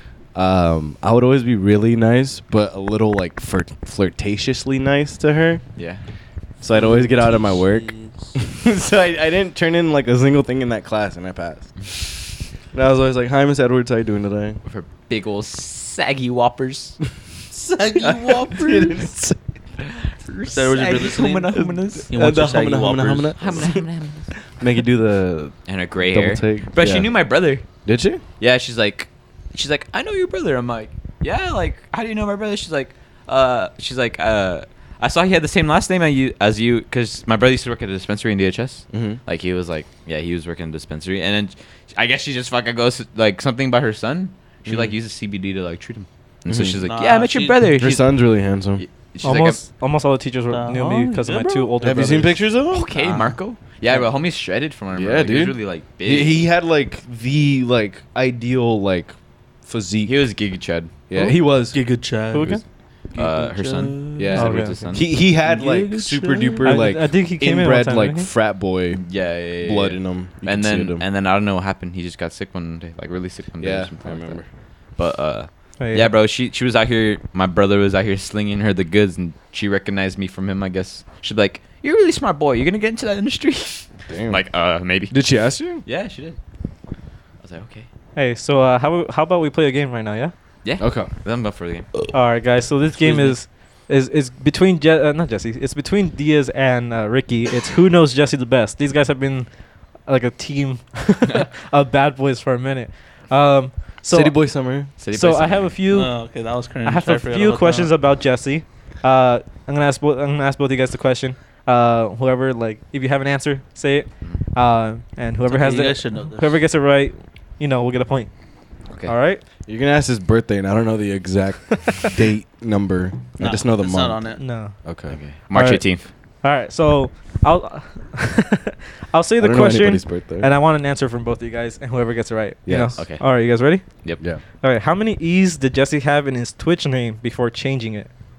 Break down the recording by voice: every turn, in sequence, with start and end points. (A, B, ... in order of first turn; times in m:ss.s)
0:00.4-0:05.6 A
0:05.8-0:06.0 B
0:06.6-0:11.8 A
0:06.7-0:08.3 C
0:12.7-0:14.6 A
0:14.7-0:17.0 B
0:17.5-0:19.0 C
0:18.0-0:18.9 B
0:18.5-0:19.4 A
0:19.8-0:22.1 B
0:20.5-0:23.7 C
0:22.1-0:23.8 A
0:23.4-0:24.3 B
0:24.6-0:25.6 A
0:25.7-0:27.6 B
0:26.1-0:27.1 A
0:27.8-0:28.2 A
0:28.4-0:48.1 B
0:38.9-0:39.2 A
0:44.7-0:44.9 A
0:46.5-0:46.8 A
0:46.9-0:47.7 C
0:47.7-0:48.8 A
0:48.8-0:49.6 B
0:49.2-0:52.4 D
0:50.5-0:51.8 C
0:51.8-0:53.3 A
0:52.7-0:56.4 B
0:54.9-1:00.2 A
1:00.0-1:00.9 B
1:01.1-1:01.8 A
1:01.7-1:02.6 C
1:02.3-1:02.6 D
1:03.1-1:04.3 C
1:03.2-1:05.1 B
1:04.2-1:09.0 A
1:04.4-1:05.0 D
1:05.4-1:06.7 C
1:06.6-1:08.3 D
1:08.9-1:14.4 B
1:09.6-1:11.0 A
1:13.6-1:14.5 A
1:15.0-1:25.2 B
1:15.8-1:16.1 D
1:24.1-1:24.4 A
1:25.1-1:25.8 A
1:25.8-1:26.4 B
1:27.4-1:27.9 B
1:28.2-1:30.3 D
1:30.6-1:31.9 B
1:30.8-1:31.1 A
1:32.1-1:39.5 D
1:33.0-1:33.4 B
1:40.0-1:44.3 D
1:44.1-1:44.9 A
1:45.0-1:45.8 B
1:45.1-1:46.2 D
1:45.9-1:47.9 C
1:46.8-1:58.3 D
1:55.5-1:56.6 C
1:59.1-1:59.4 D
1:59.7-2:04.3 A
2:03.4-2:04.4 C
2:04.4-2:04.8 D
2:04.8-2:05.2 A
2:05.1-2:06.1 B
2:05.5-2:05.8 D
2:06.4-2:13.8 D
2:09.4-2:10.5 A
2:12.6-2:13.0 A
2:13.0-2:13.2 B
2:14.6-2:18.1 D